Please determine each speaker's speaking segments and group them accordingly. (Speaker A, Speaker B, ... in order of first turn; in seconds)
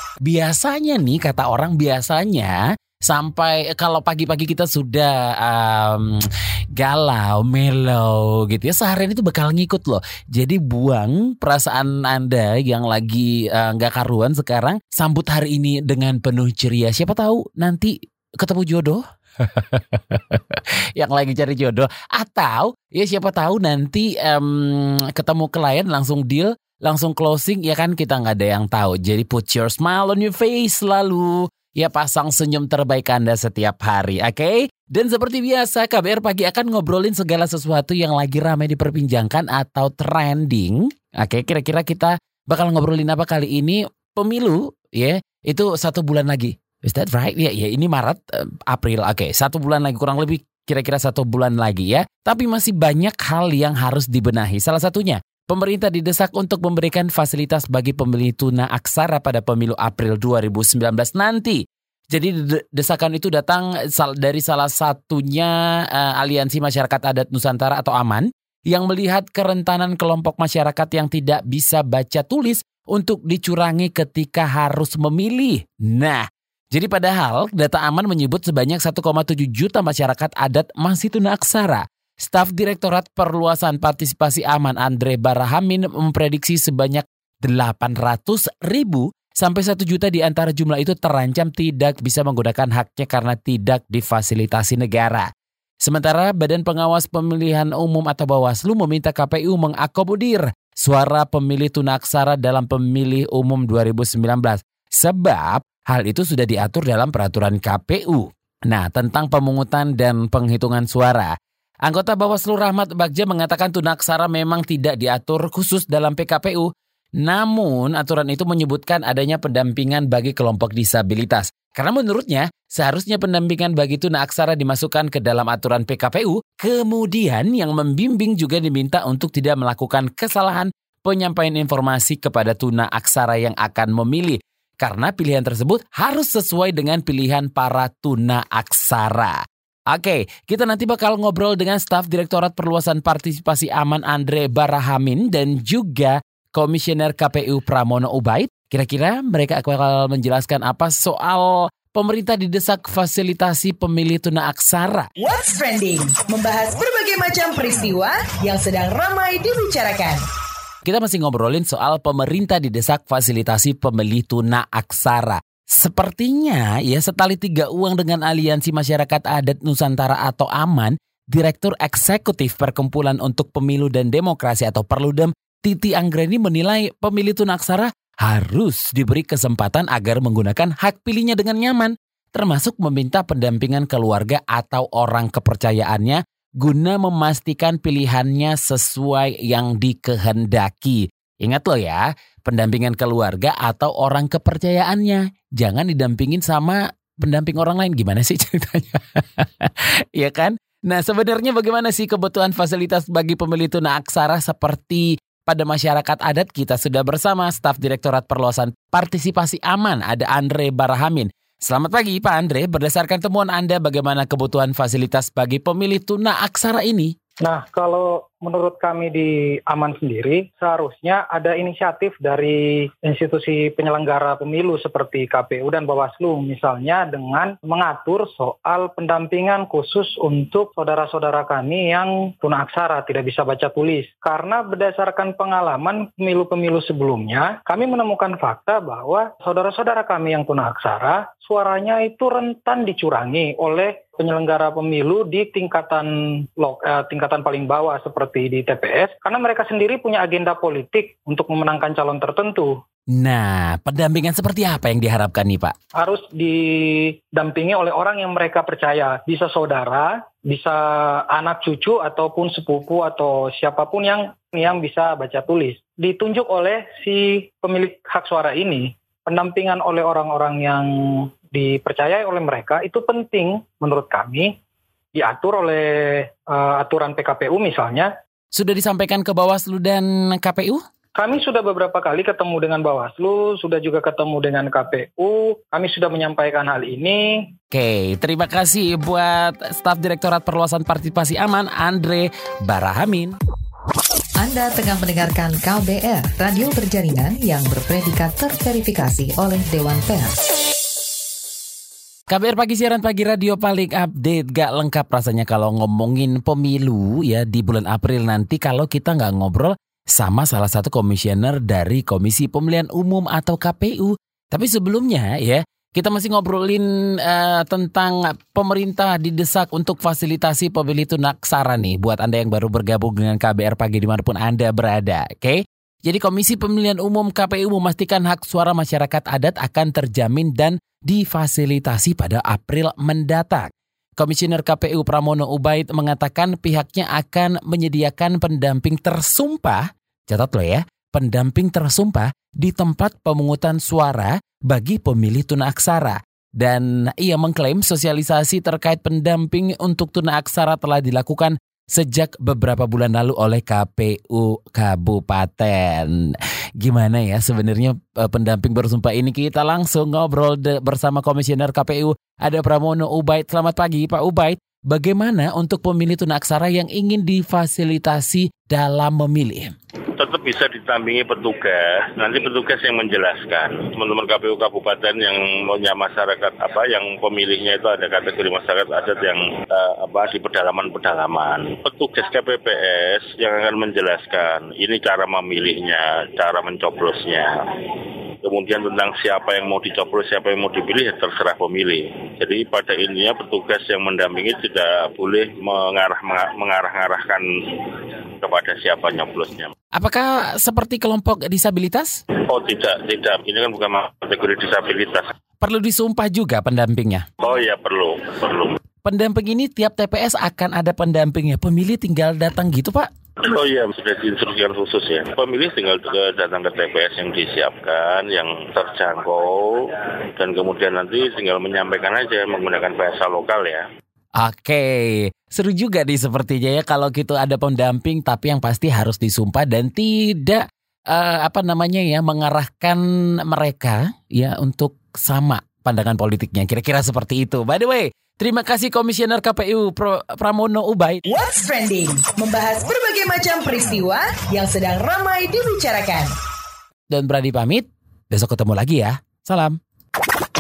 Speaker A: 0.2-61.6, 62.1-95.3, 95.8-111.3, 111.8-116.7, 117.2-139.4, 139.9-155.1, 160.8-217.1, 253.1-255.7, 278.5-280.8, 287.7-293.4, 302.3-369.7, 399.9-402.2, 405.6-407.2, 409.0-413.1, 424.4-441.2, 447.1-449.8
Speaker B: 155.2-160.2, 441.3-446.3
Speaker C: 217.4-252.8, 255.9-274.5, 275.1-278.1, 281.1-287.5
Speaker D: 294.4-300.4
Speaker E: 370.2-387.6, 388.4-399.7, 402.4-405.2, 407.4-408.8, 413.4-423.8